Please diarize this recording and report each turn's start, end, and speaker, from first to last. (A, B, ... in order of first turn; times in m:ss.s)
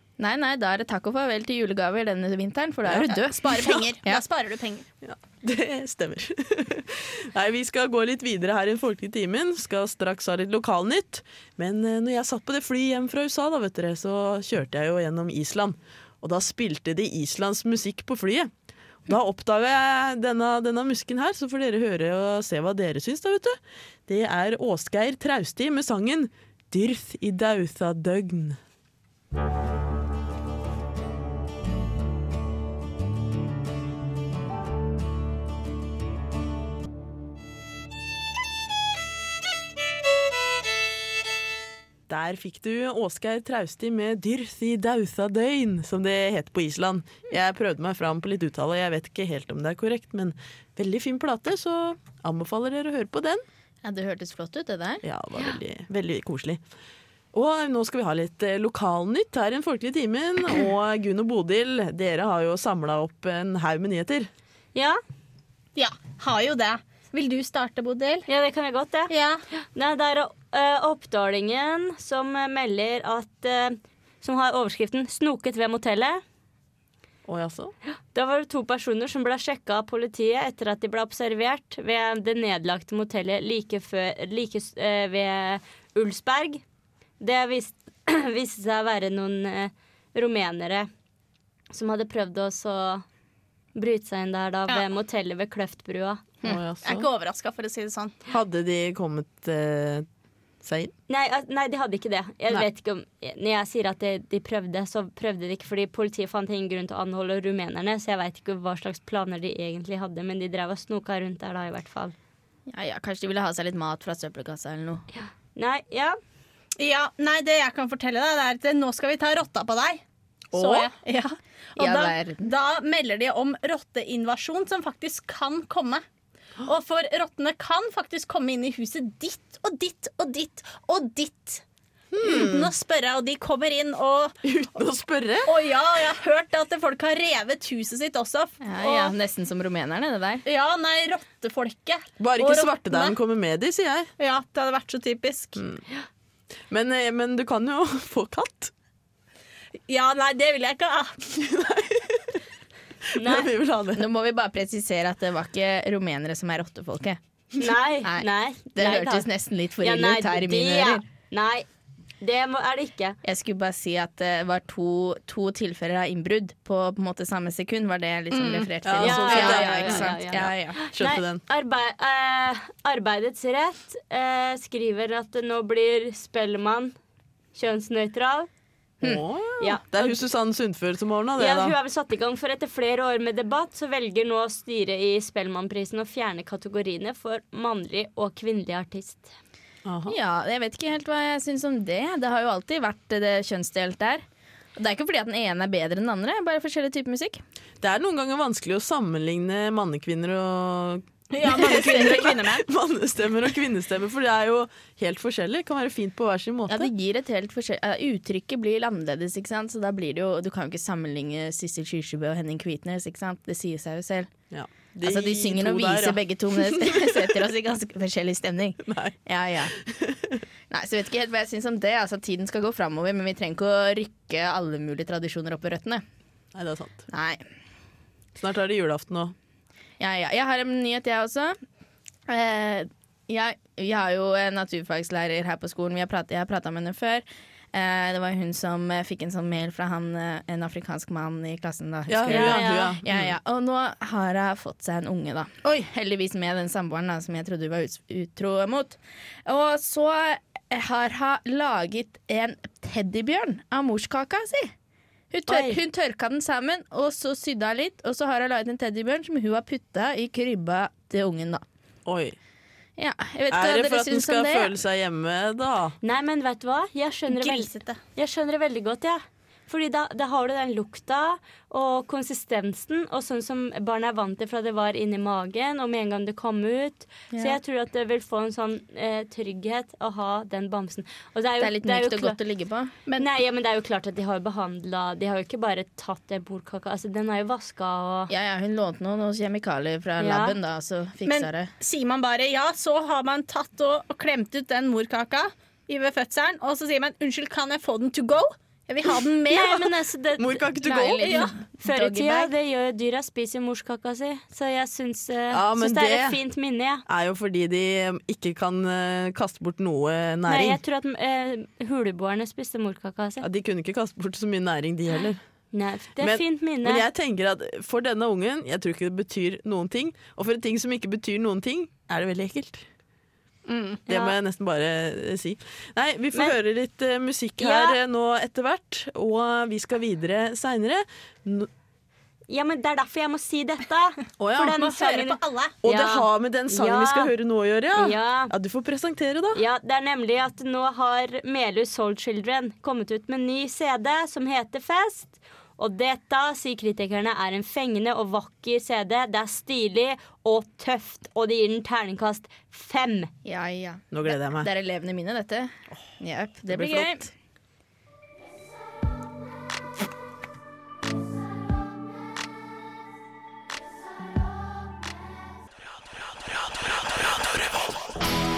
0:00.2-0:04.2 A
0:02.9-0:03.8 B
0:03.0-0:04.9 C
0:05.0-0:18.5 B
0:19.1-0:28.6 B
0:42.1-0:53.4 B
0:53.8-0:55.0 A
0:55.0-0:56.6 B
0:57.3-1:04.3 B
1:04.7-1:05.0 D
1:05.8-1:08.3 C
1:08.3-1:16.2 D
1:09.1-1:09.4 C
1:17.2-1:17.7 B
1:18.1-1:26.6 D
1:27.2-1:30.9 D
1:31.7-1:33.0 D
1:33.7-1:36.2 D
1:36.4-1:37.1 B
1:36.8-1:38.1 C
1:38.3-1:40.1 B
1:40.6-1:40.9 B
1:41.1-1:52.1 D
1:52.7-1:55.0 A
1:55.1-1:56.2 D
1:56.8-2:00.0 C
2:00.5-2:00.9 B
2:00.5-2:06.0 C
2:01.8-2:02.5 A
2:06.6-2:11.6 C
2:12.1-2:12.7 B
2:12.2-2:14.4 C
2:14.4-2:15.5 B
2:15.4-2:19.1 C
2:18.6-2:20.4 A
2:20.4-2:23.2 C
2:22.2-2:24.1 B
2:24.2-2:25.6 C
2:25.6-2:25.8 B
2:26.7-2:28.7 B
2:29.9-2:31.2 C
2:31.3-2:32.4 B
2:33.1-2:33.5 D
2:33.1-2:34.0 B
2:33.9-2:37.2 A
2:37.6-2:39.3 D
2:38.0-2:41.0 A
2:39.8-2:41.6 D
2:42.2-2:43.2 D
2:43.2-2:50.8 A
2:48.3-2:48.7 C
2:48.8-2:51.4 B
2:49.0-2:56.9 D
2:49.3-2:49.6 C
2:57.5-2:58.5 D
2:59.0-3:01.8 B
2:59.6-3:00.2 D
3:01.4-3:09.3 D
3:09.8-3:10.2 B
3:10.1-3:14.2 A
3:14.8-3:17.4 A
3:17.8-3:26.9 B
3:21.3-3:22.6 C
3:21.6-3:22.5 A
3:26.7-3:34.3 A
3:34.5-3:37.2 B
3:35.0-3:39.8 A
3:38.9-3:39.1 B
3:39.8-3:40.4 B
3:40.7-3:46.0 A
3:46.5-3:47.0 B
3:47.1-3:47.4 A
3:48.4-3:49.3 B
3:50.0-3:51.6 A
3:52.3-4:14.7 A
4:02.1-4:03.3 B
4:02.2-4:03.0 D
4:15.3-4:21.6 A
4:15.5-4:15.8 D
4:22.0-4:22.4 B
4:23.0-4:24.8 A
4:23.5-4:26.0 B
4:26.0-4:42.4 D
4:27.3-4:28.0 C
4:37.3-4:37.6 A
4:41.6-4:42.9 A
4:43.2-4:48.3 D
4:48.3-4:51.7 A
4:50.2-4:50.6 D
4:51.2-4:59.9 C
4:59.5-5:07.0 D
5:00.4-5:01.4 B
5:00.8-5:02.5 A
5:01.2-5:01.5 C
5:05.5-5:06.4 B
5:07.1-5:10.8 B
5:10.4-5:13.4 D
5:13.4-5:15.4 B
5:15.7-5:17.0 D
5:16.2-5:22.8 B
5:23.7-5:24.0 C
5:24.1-5:24.4 D
5:24.1-5:31.7 B
5:27.6-5:28.0 D
5:32.5-5:37.3 D
5:34.4-5:34.8 B
5:34.6-5:35.8 C
5:35.8-5:39.6 B
5:37.9-5:38.5 D
5:39.5-5:53.3 D
5:53.4-5:57.3 A
5:54.1-5:54.7 B
5:56.7-5:57.2 B